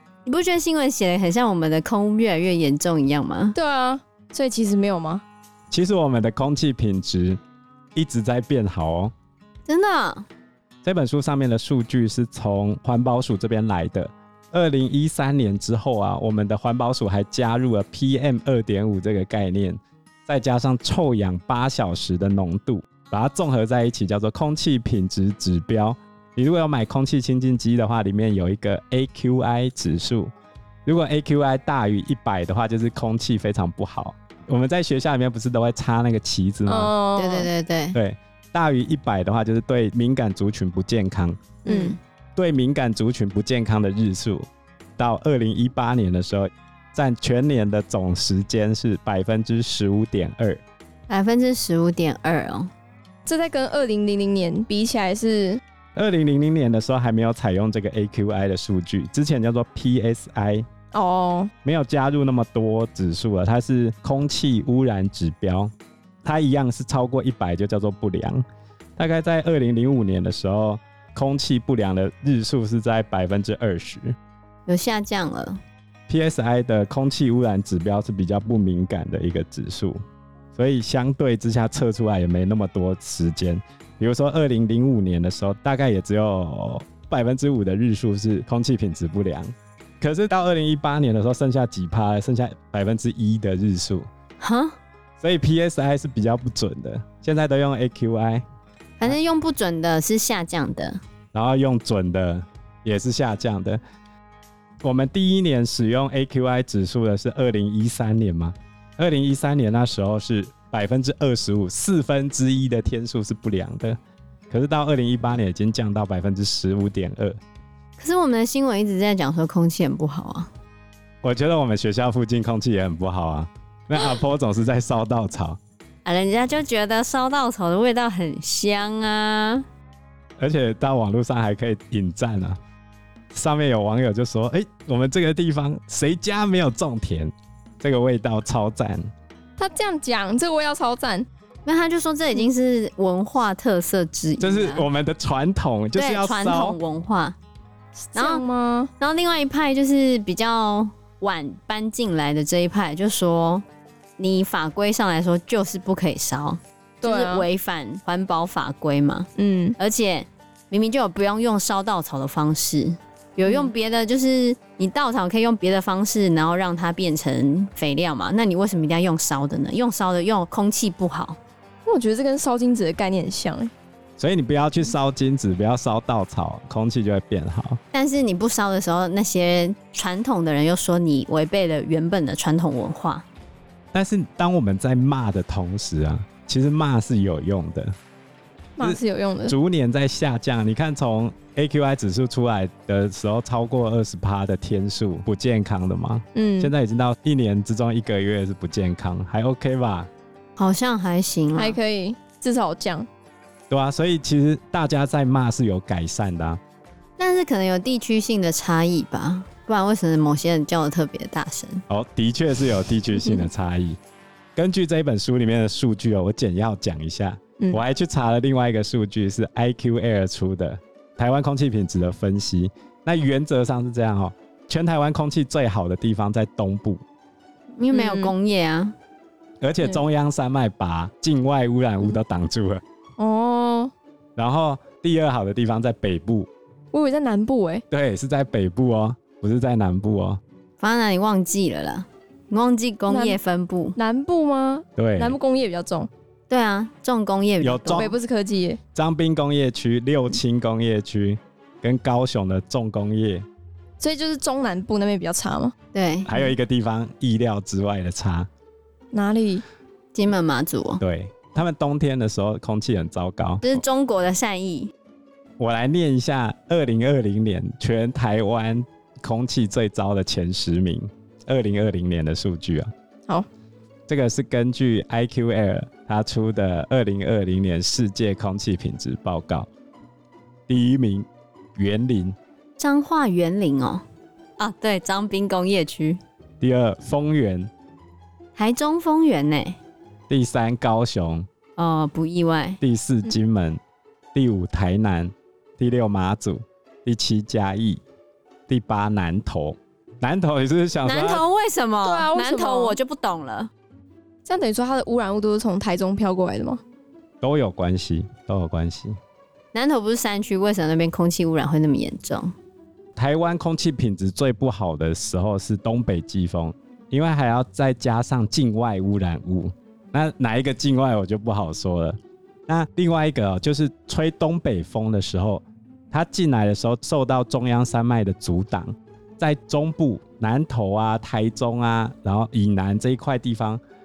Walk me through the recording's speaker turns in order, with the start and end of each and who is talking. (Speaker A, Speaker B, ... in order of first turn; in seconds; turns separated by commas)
Speaker A: 0.3-3.6, Speaker B: 3.5-5.2, Speaker C: 5.7-7.4, Speaker C: 8.0-9.1, Speaker A: 9.7-10.3, Speaker C: 10.8-30.3, Speaker C: 30.9-36.9, Speaker B: 36.7-37.5, Speaker A: 37.2-38.0, Speaker C: 37.9-41.6, Speaker B: 41.6-42.0, Speaker A: 41.6-42.0, Speaker C: 42.4-44.5, Speaker C: 45.0-50.6, Speaker A: 51.1-52.7, Speaker B: 53.2-55.6, Speaker C: 56.0-60.7, Speaker B: 60.9-61.5, Speaker C: 61.6-65.7, Speaker C: 66.2-68.4, Speaker C: 69.0-74.2, Speaker A: 74.7-75.6, Speaker C: 76.1-80.0, Speaker C: 80.5-94.1, Speaker A: 94.4-94.8, Speaker C: 95.2-98.4, Speaker A: 99.0-101.0, Speaker C: 101.3-103.8, Speaker C: 104.8-114.0, Speaker C: 114.5-117.4, Speaker A: 118.0-120.5, Speaker C: 121.2-125.6, Speaker A: 126.0-129.7, Speaker C: 130.4-132.6, Speaker C: 133.3-139.1, Speaker B: 139.6-141.3, Speaker A: 141.7-144.9, Speaker C: 144.4-146.8, Speaker A: 146.0-147.4, Speaker B: 148.1-148.9, Speaker A: 148.2-148.4, Speaker A: 149.0-153.7, Speaker A: 154.2-171.4, Speaker B: 157.0-157.5, Speaker B: 159.4-159.8, Speaker B: 163.4-163.7, Speaker B: 171.9-173.7, Speaker C: 174.2-177.8, Speaker A: 177.9-183.2, Speaker C: 183.9-187.9, Speaker B: 188.8-189.6, Speaker C: 188.8-200.1, Speaker B: 196.3-196.7, Speaker A: 200.6-201.8, Speaker B: 201.6-203.1, Speaker C: 203.7-206.6, Speaker A: 207.2-211.8, Speaker C: 211.9-214.0, Speaker C: 214.6-227.0, Speaker A: 227.8-228.9, Speaker B: 227.9-228.3, Speaker C: 229.6-232.8, Speaker B: 233.2-233.9, Speaker C: 234.4-236.5, Speaker B: 236.9-237.8, Speaker C: 237.9-240.4, Speaker A: 240.8-244.0, Speaker B: 243.1-243.4, Speaker B: 244.0-246.1, Speaker C: 245.0-245.4, Speaker A: 246.5-248.1, Speaker C: 247.6-248.1, Speaker B: 247.9-248.8, Speaker C: 248.9-253.5, Speaker B: 254.0-255.8, Speaker A: 255.9-256.3, Speaker C: 256.3-258.5, Speaker B: 259.1-259.6, Speaker A: 260.1-261.0, Speaker C: 261.0-263.8, Speaker A: 263.6-264.9, Speaker C: 265.6-272.9, Speaker C: 274.1-279.7, Speaker C: 280.7-282.4, Speaker A: 282.8-284.0, Speaker A: 284.6-286.2, Speaker C: 286.6-287.7, Speaker A: 288.6-289.8, Speaker C: 290.3-291.5, Speaker A: 291.8-292.8, Speaker C: 292.8-293.8, Speaker C: 294.3-298.0, Speaker C: 298.7-301.4, Speaker A: 301.1-303.7, Speaker B: 302.0-303.0, Speaker B: 304.4-306.8, Speaker C: 307.4-309.2, Speaker A: 309.7-312.5, Speaker C: 313.2-333.8